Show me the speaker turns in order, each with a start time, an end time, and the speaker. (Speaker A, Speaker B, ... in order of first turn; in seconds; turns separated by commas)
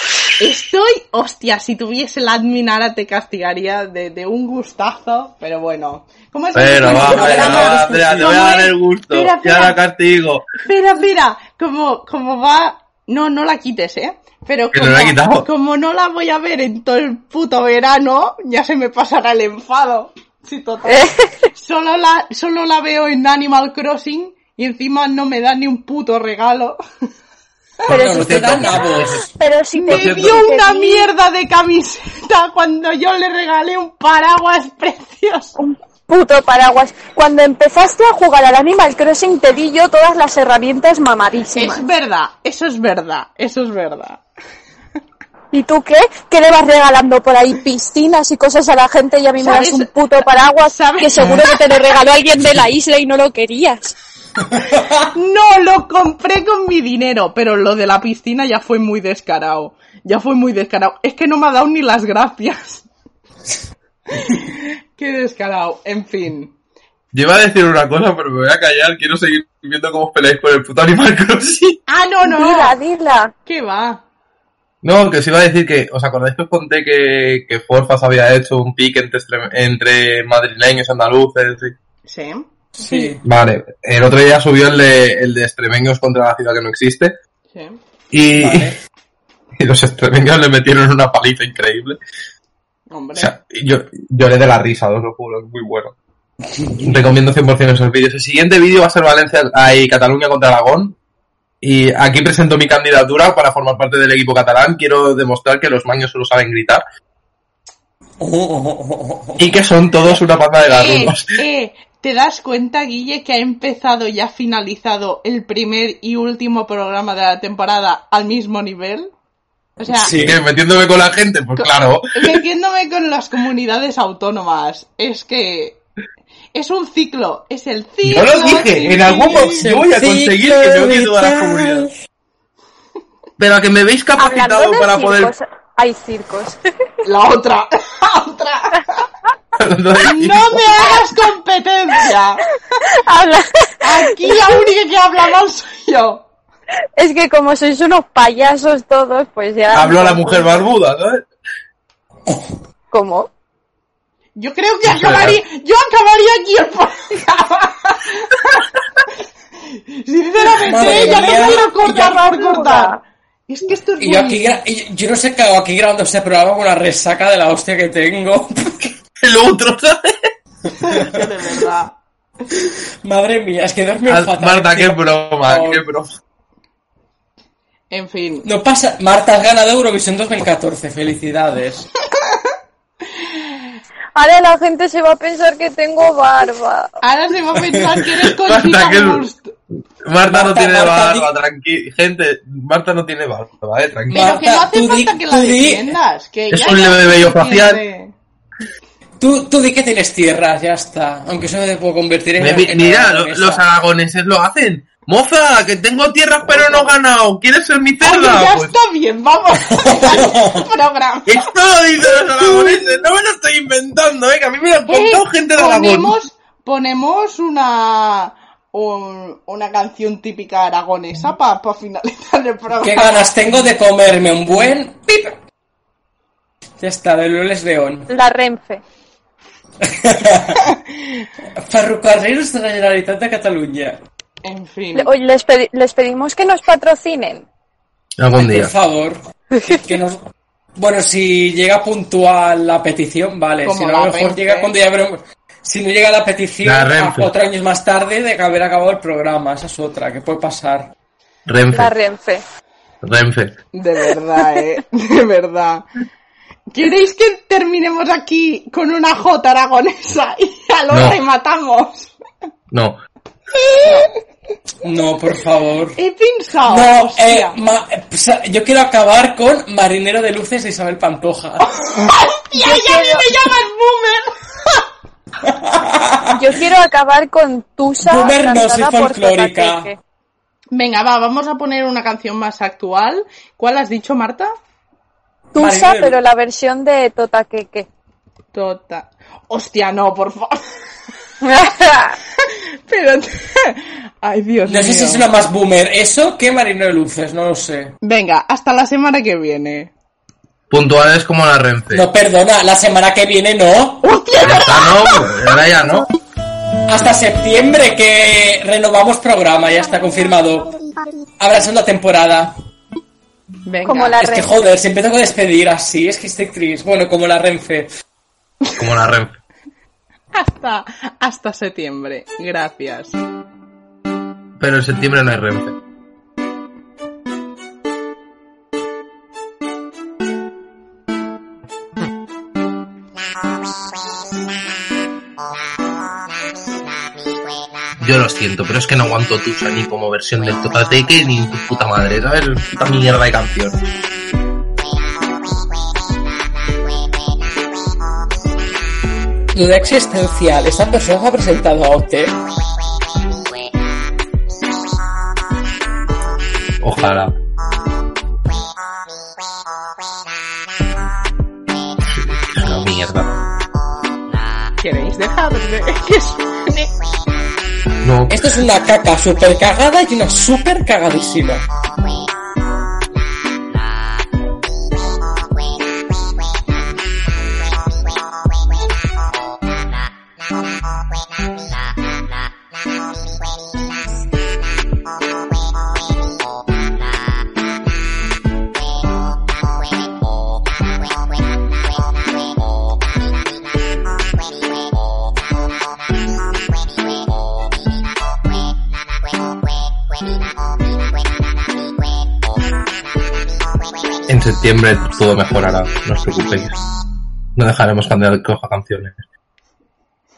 Speaker A: 0.4-9.8, Speaker B: 6.5-10.5, Speaker C: 6.8-8.3, Speaker A: 10.6-26.8, Speaker B: 14.7-15.5, Speaker D: 20.9-21.5, Speaker B: 27.9-29.2, Speaker C: 27.9-29.3, Speaker D: 27.9-31.1, Speaker A: 29.8-35.6, Speaker B: 29.9-30.4, Speaker D: 35.6-41.9, Speaker A: 41.5-44.2, Speaker D: 45.5-54.0, Speaker A: 49.4-51.8, Speaker A: 55.0-62.8, Speaker A: 64.1-66.5, Speaker B: 67.1-71.8, Speaker A: 71.9-72.8, Speaker D: 72.3-73.3, Speaker A: 73.5-74.0, Speaker B: 74.8-81.8, Speaker A: 82.1-83.2, Speaker C: 82.8-83.2, Speaker B: 83.2-87.2, Speaker A: 87.5-87.8, Speaker B: 88.1-88.7, Speaker C: 88.4-88.8, Speaker B: 89.6-92.0, Speaker A: 92.9-93.3, Speaker B: 93.2-96.0, Speaker C: 96.6-97.0, Speaker B: 96.8-101.0, Speaker B: 101.6-106.8, Speaker C: 108.2-109.5, Speaker B: 109.4-111.4, Speaker A: 110.6-119.1, Speaker A: 119.8-120.2, Speaker C: 119.9-120.4, Speaker B: 120.2-122.4, Speaker A: 121.6-125.8, Speaker A: 126.5-129.7, Speaker B: 128.0-131.9, Speaker C: 129.3-131.9, Speaker B: 133.4-135.3, Speaker D: 134.2-136.6, Speaker A: 137.0-139.1, Speaker B: 139.6-141.1, Speaker A: 140.0-142.4, Speaker D: 142.8-144.3, Speaker A: 143.8-146.2, Speaker D: 147.0-150.6, Speaker B: 149.7-151.2, Speaker C: 152.3-152.5, Speaker D: 152.9-153.3, Speaker A: 154.4-159.1, Speaker B: 154.8-155.4, Speaker A: 159.7-164.6, Speaker C: 160.5-162.2, Speaker D: 160.8-163.0, Speaker C: 164.0-169.0, Speaker B: 169.2-170.3, Speaker C: 170.7-171.3, Speaker A: 170.8-171.9, Speaker C: 172.5-175.8, Speaker B: 174.1-176.2, Speaker A: 177.9-178.5, Speaker C: 178.4-181.9, Speaker A: 182.2-182.5, Speaker A: 183.1-183.8, Speaker D: 184.2-187.0, Speaker A: 187.0-189.5, Speaker C: 187.6-187.8, Speaker B: 188.4-189.3, Speaker B: 190.1-194.2, Speaker C: 190.3-191.3, Speaker C: 194.1-196.0, Speaker A: 194.1-198.1, Speaker B: 196.5-197.8, Speaker C: 199.2-203.6, Speaker B: 202.4-208.7, Speaker A: 206.5-207.0, Speaker A: 208.0-211.5, Speaker C: 209.7-210.7, Speaker B: 211.3-216.2, Speaker A: 212.0-213.1, Speaker A: 214.9-223.2, Speaker C: 222.8-225.4, Speaker C: 226.8-228.1, Speaker D: 228.1-228.8, Speaker C: 229.8-230.7, Speaker A: 230.6-231.2, Speaker C: 231.6-234.0, Speaker A: 234.4-235.1, Speaker D: 234.9-237.5, Speaker B: 238.2-238.7, Speaker C: 238.3-240.2, Speaker D: 239.5-239.8, Speaker C: 240.8-250.9, Speaker A: 243.6-244.7, Speaker B: 246.6-247.3, Speaker B: 251.5-251.9, Speaker D: 251.7-252.4, Speaker B: 253.0-253.6, Speaker A: 253.7-255.9, Speaker A: 256.7-262.1, Speaker B: 260.9-261.2, Speaker B: 262.7-263.0, Speaker A: 263.5-264.2, Speaker C: 264.8-266.0, Speaker A: 266.0-267.6, Speaker C: 266.7-271.8, Speaker A: 271.8-274.9, Speaker D: 272.6-273.3, Speaker C: 275.4-276.4, Speaker D: 276.3-280.0, Speaker C: 278.0-279.9, Speaker A: 280.7-284.5, Speaker C: 285.6-286.2, Speaker D: 285.6-287.9, Speaker A: 288.5-290.6, Speaker D: 291.4-292.2, Speaker A: 292.4-295.3, Speaker C: 294.6-298.0, Speaker A: 298.0-299.9, Speaker B: 300.7-302.1, Speaker C: 301.9-304.0, Speaker A: 304.0-305.6, Speaker B: 304.4-306.1, Speaker C: 306.9-310.7, Speaker C: 311.4-312.5, Speaker A: 313.7-314.2, Speaker D: 313.8-314.5, Speaker C: 314.2-317.9, Speaker B: 318.8-319.4, Speaker A: 320.3-323.2, Speaker B: 324.6-325.8, Speaker B: 338.0-343.8, Speaker C: 349.5-352.4, Speaker B: 356.8-357.4, Speaker B: 362.1-363.4, Speaker A: 364.8-366.9, Speaker B: 368.0-368.5, Speaker C: 368.3-371.6, Speaker B: 404.3-406.8, Speaker B: 407.6-409.2